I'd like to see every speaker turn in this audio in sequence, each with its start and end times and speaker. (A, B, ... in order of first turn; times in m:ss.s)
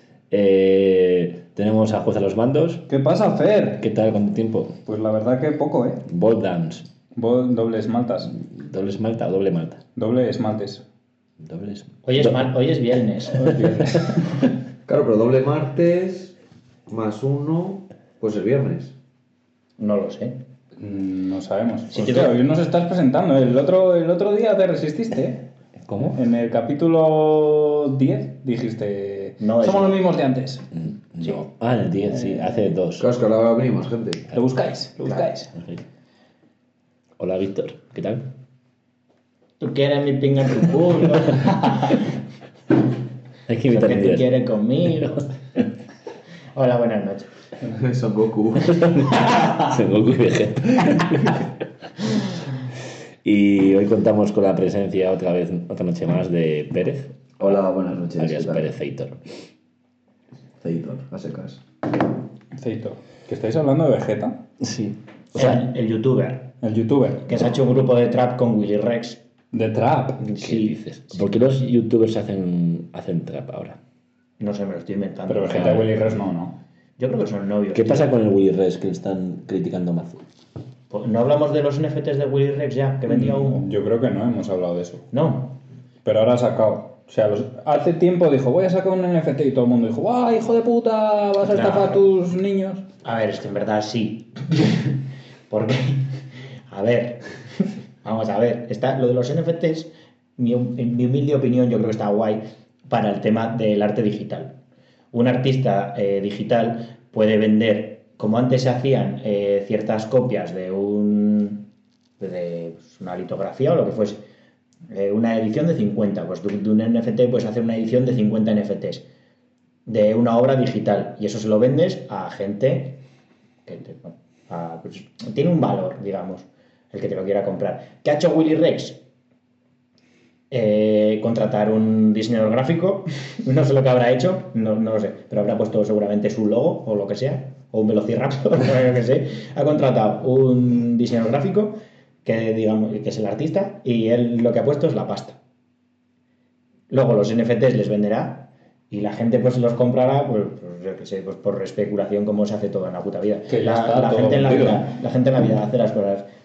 0:00.3-0:02.9 A
0:02.9-0:03.8 B
0:03.8-0:04.8 A
0:04.8-0:06.0 B
0:06.1-0:06.9 A
0:07.1-0:08.3 B
0:08.3-0:09.8 A
0:10.0-0:10.8 B
0:11.4-0:12.5 A
0:12.0-0:13.7 C
0:13.3-0:14.2 B
0:13.4-0:14.1 A
0:14.9-0:16.3 D
0:16.9-0:18.9 D
0:19.8-0:20.4 C
0:20.8-0:25.4 B
0:21.9-0:22.4 C
0:25.8-0:26.2 A
0:26.1-0:30.6 B
0:29.4-0:30.0 C
0:30.7-0:33.1 A
0:33.0-0:34.3 D
0:34.3-0:35.4 B
0:34.3-0:34.6 A
0:35.0-0:35.5 C
0:35.5-0:35.8 A
0:37.2-0:38.2 A
0:39.6-0:42.0 C
0:43.5-0:44.3 A
0:43.7-0:45.3 C
0:46.5-0:47.3 C
0:47.7-0:49.0 D
0:48.7-0:51.4 A
0:53.2-0:57.2 A
0:57.4-0:58.7 D
0:58.2-0:59.2 A
1:00.6-1:01.6 D
1:02.5-1:04.4 B
1:04.6-1:05.4 A
1:05.3-1:06.5 C
1:06.6-1:07.3 B
1:07.2-1:09.2 C
1:09.5-1:10.2 B
1:10.2-1:10.8 C
1:10.4-1:13.8 A
1:14.4-1:16.1 C
1:15.3-1:16.6 B
1:15.6-1:15.9 A
1:17.0-1:18.1 C
1:17.7-1:20.2 A
1:20.9-1:23.6 C
1:23.1-1:25.0 B
1:25.1-1:25.5 C
1:26.0-1:32.8 B
1:31.5-1:32.0 C
1:33.0-1:35.0 C
1:35.5-1:36.1 C
1:36.7-1:44.5 C
1:45.1-1:51.7 C
1:52.2-1:54.2 C
1:54.9-1:59.0 C
1:59.8-2:03.0 C
2:03.6-2:09.0 C
2:10.5-2:25.4 C
2:26.9-2:36.2 C
2:33.5-2:34.9 B